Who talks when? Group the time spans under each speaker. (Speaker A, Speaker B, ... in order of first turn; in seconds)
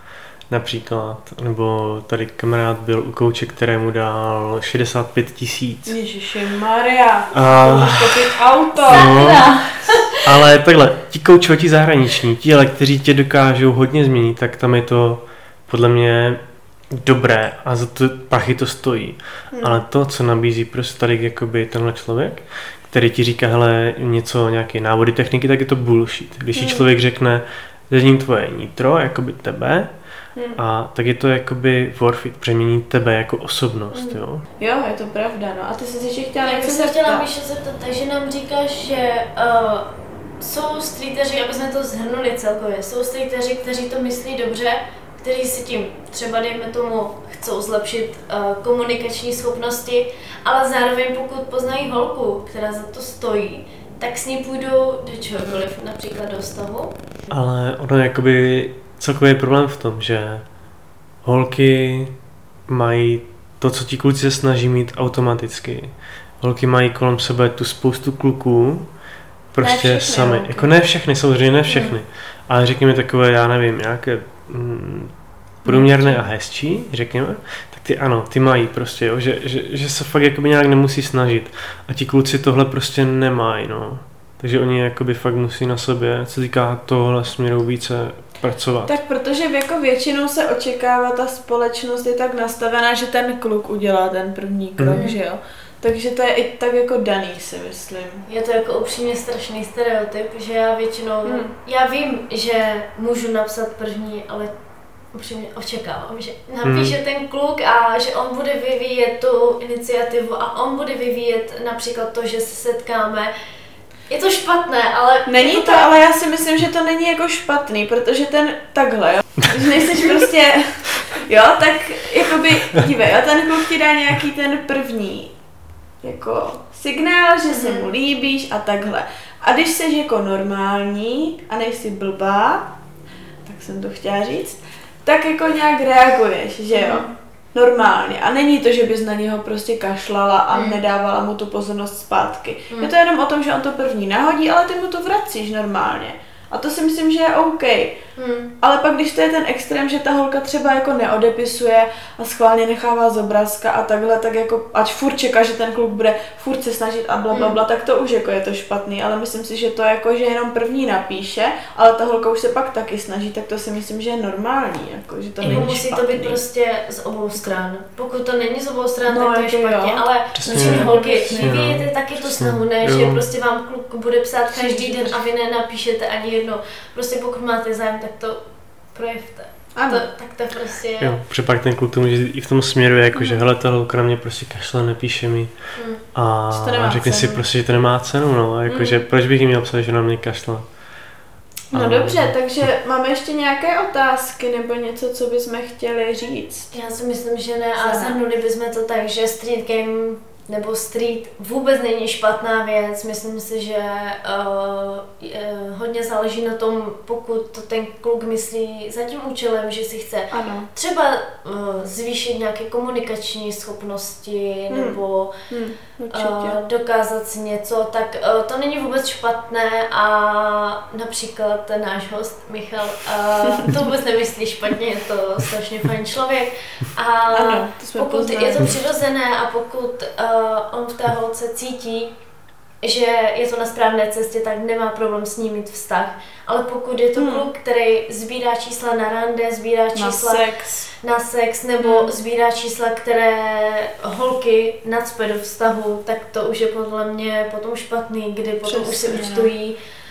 Speaker A: 0.5-6.0, 7.3-29.9, 30.5-34.4, 57.3-60.4, 61.2-62.1, 62.7-68.9, 69.5-75.1, 75.6-88.9, 106.6-106.9, 165.4-165.7, 170.3-173.2, 181.0-190.7, 191.7-192.3
Speaker B: 5.8-9.5, 19.5-19.9, 26.5-26.9, 34.0-37.2, 69.6-70.7, 75.6-76.2, 88.8-98.2, 101.2-101.5, 115.2-125.3, 126.0-132.7, 133.4-148.0, 148.6-166.4, 169.1-171.8, 174.5-175.2, 179.7-180.0, 186.5-187.4, 188.7-189.0, 191.7-196.7, 197.8-198.2, 210.3-210.7, 214.7-216.6, 227.3-228.8, 237.2-237.4, 239.9-240.9, 241.8-242.1, 248.6-249.5
Speaker C: 8.9-10.2, 36.4-57.0, 71.7-71.9, 98.3-104.5, 105.1-113.3, 114.1-115.9, 127.5-127.9, 136.7-137.1, 140.5-140.8, 148.2-148.5, 157.3-157.6, 165.4-181.2, 185.7-186.0, 196.7-215.3, 216.1-232.1, 232.8-240.4, 241.0-249.8